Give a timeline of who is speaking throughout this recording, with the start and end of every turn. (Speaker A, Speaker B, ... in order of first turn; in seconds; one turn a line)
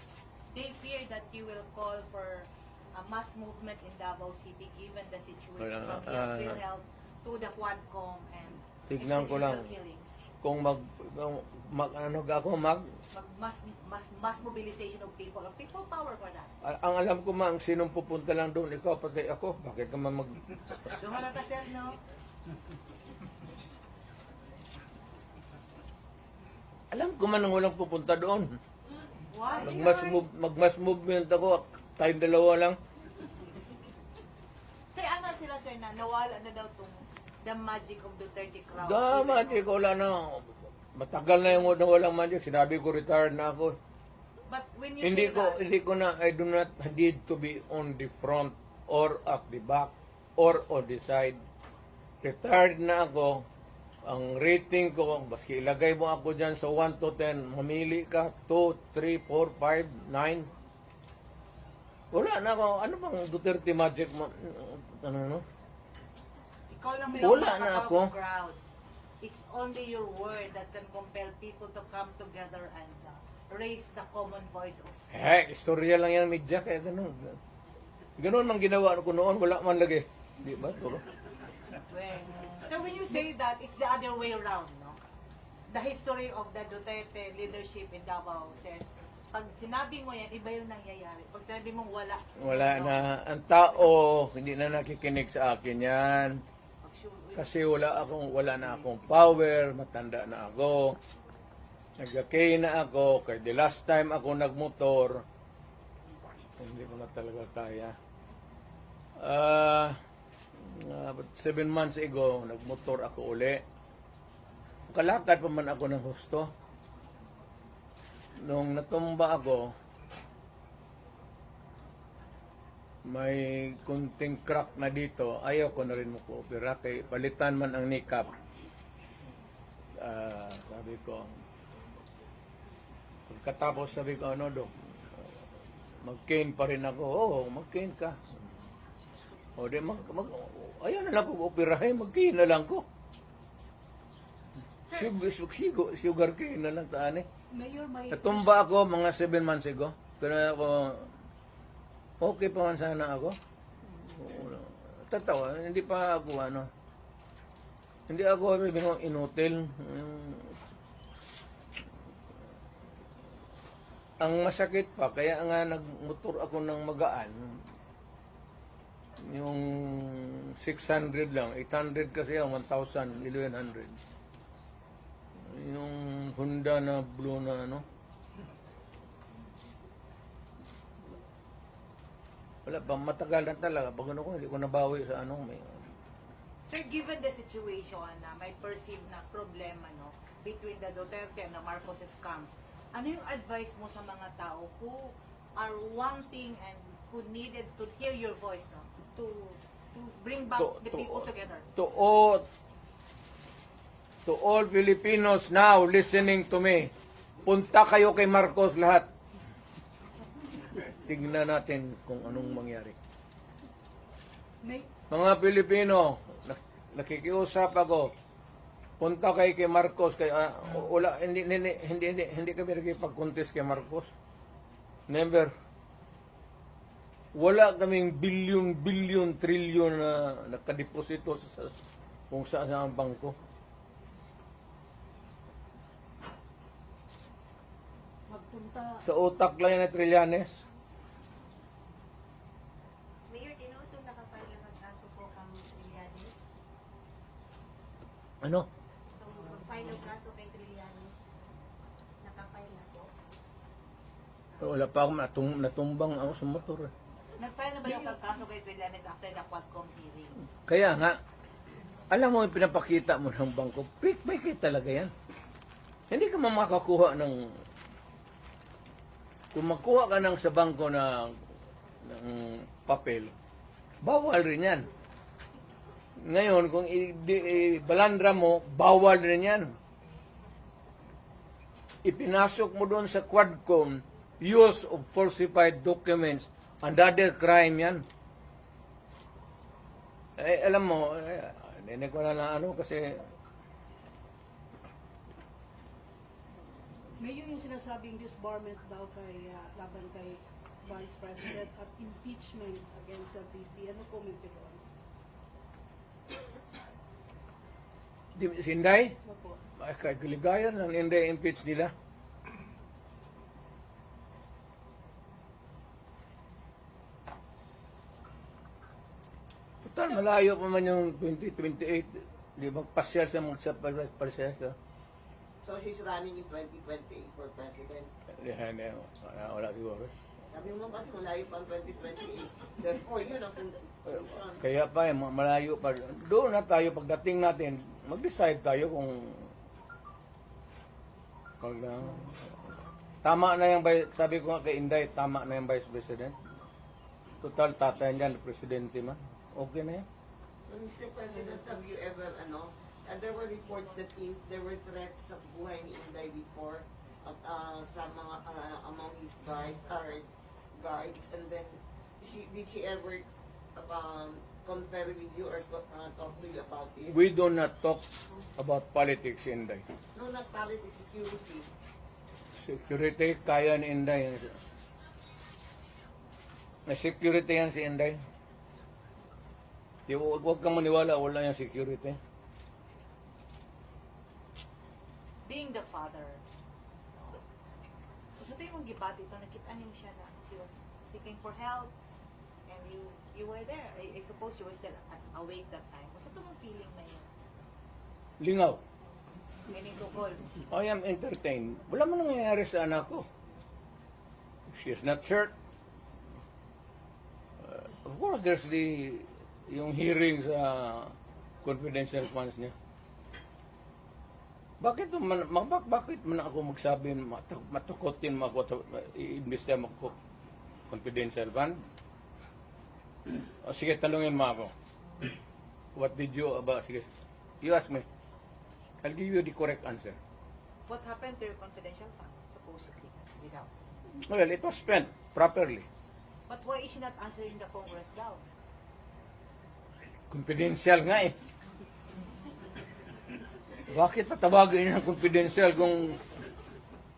Speaker A: 0.5-10.1
Speaker B: 5.6-6.6
Speaker B: 8.9-9.7
Speaker B: 10.4-12.8
Speaker A: 13.1-16.5
Speaker B: 16.6-20.4
Speaker A: 20.9-22.0
Speaker B: 26.9-28.6
Speaker A: 29.3-30.2
Speaker B: 29.6-32.8
Speaker A: 34.9-39.7
Speaker B: 38.8-43.8
Speaker A: 44.5-45.7
Speaker B: 45.0-51.4
Speaker B: 52.2-53.5
Speaker B: 54.1-60.5
Speaker B: 62.1-65.4
Speaker A: 66.7-68.6
Speaker B: 67.1-68.1
Speaker A: 69.2-75.0
Speaker B: 75.1-77.4
Speaker B: 78.2-81.0
Speaker A: 81.9-85.0
Speaker A: 85.7-93.1
Speaker B: 92.4-96.4
Speaker A: 96.8-97.6
Speaker B: 97.4-101.0
Speaker B: 102.0-105.2
Speaker B: 106.6-108.0
Speaker B: 109.2-110.0
Speaker B: 110.6-113.6
Speaker B: 114.9-116.5
Speaker B: 118.4-119.7
Speaker B: 123.1-128.3
Speaker B: 130.0-131.4
Speaker B: 133.3-134.7
Speaker B: 136.0-138.2
Speaker B: 139.6-142.8
Speaker B: 144.9-147.3
Speaker C: 147.5-148.5
Speaker B: 148.1-151.1
Speaker B: 152.2-153.4
Speaker B: 153.9-156.7
Speaker B: 158.1-160.6
Speaker B: 164.2-167.6
Speaker B: 169.2-174.0
Speaker B: 175.4-177.8
Speaker B: 182.7-185.8
Speaker A: 186.7-201.7
Speaker B: 200.6-202.5
Speaker B: 204.3-206.9
Speaker B: 207.4-209.1
Speaker B: 210.9-213.0
Speaker C: 214.6-214.9
Speaker B: 215.1-218.1
Speaker B: 219.0-224.1
Speaker B: 225.1-225.5
Speaker B: 227.3-231.8
Speaker B: 232.3-233.4
Speaker C: 238.3-239.0
Speaker B: 239.0-240.6
Speaker D: 243.3-246.4
Speaker B: 248.4-248.7
Speaker D: 249.2-251.2
Speaker D: 252.2-253.1
Speaker B: 254.6-256.9
Speaker A: 257.4-260.4
Speaker B: 260.7-261.2
Speaker B: 262.1-265.1
Speaker B: 266.1-267.6
Speaker B: 269.5-271.4
Speaker B: 272.0-273.4
Speaker B: 274.0-274.9
Speaker B: 276.2-279.8
Speaker B: 282.0-288.1
Speaker B: 290.4-293.3
Speaker C: 297.2-304.8
Speaker B: 308.4-309.2
Speaker C: 309.2-309.6
Speaker B: 309.8-311.9
Speaker B: 319.8-324.8
Speaker E: 325.6-328.1
Speaker B: 328.3-330.1
Speaker E: 330.5-334.6
Speaker B: 334.6-339.5
Speaker B: 341.6-342.5
Speaker B: 343.2-346.4
Speaker B: 347.4-350.1
Speaker E: 350.7-367.2
Speaker B: 367.1-368.1
Speaker B: 368.6-369.8
Speaker E: 370.1-371.7
Speaker B: 372.6-374.6
Speaker B: 376.9-378.2
Speaker B: 380.1-382.2
Speaker A: 385.4-386.4
Speaker A: 388.4-391.9
Speaker A: 392.7-397.3
Speaker B: 398.4-398.8
Speaker A: 399.7-400.5
Speaker B: 400.7-403.3
Speaker B: 404.7-405.5
Speaker B: 407.6-412.8
Speaker B: 414.8-420.2
Speaker B: 420.9-421.8
Speaker B: 423.6-424.7
Speaker B: 425.9-427.1
Speaker B: 427.6-428.1
Speaker B: 429.0-430.2
Speaker A: 430.9-433.7
Speaker B: 434.2-435.9
Speaker A: 436.5-438.4
Speaker B: 440.3-441.4
Speaker B: 443.9-446.2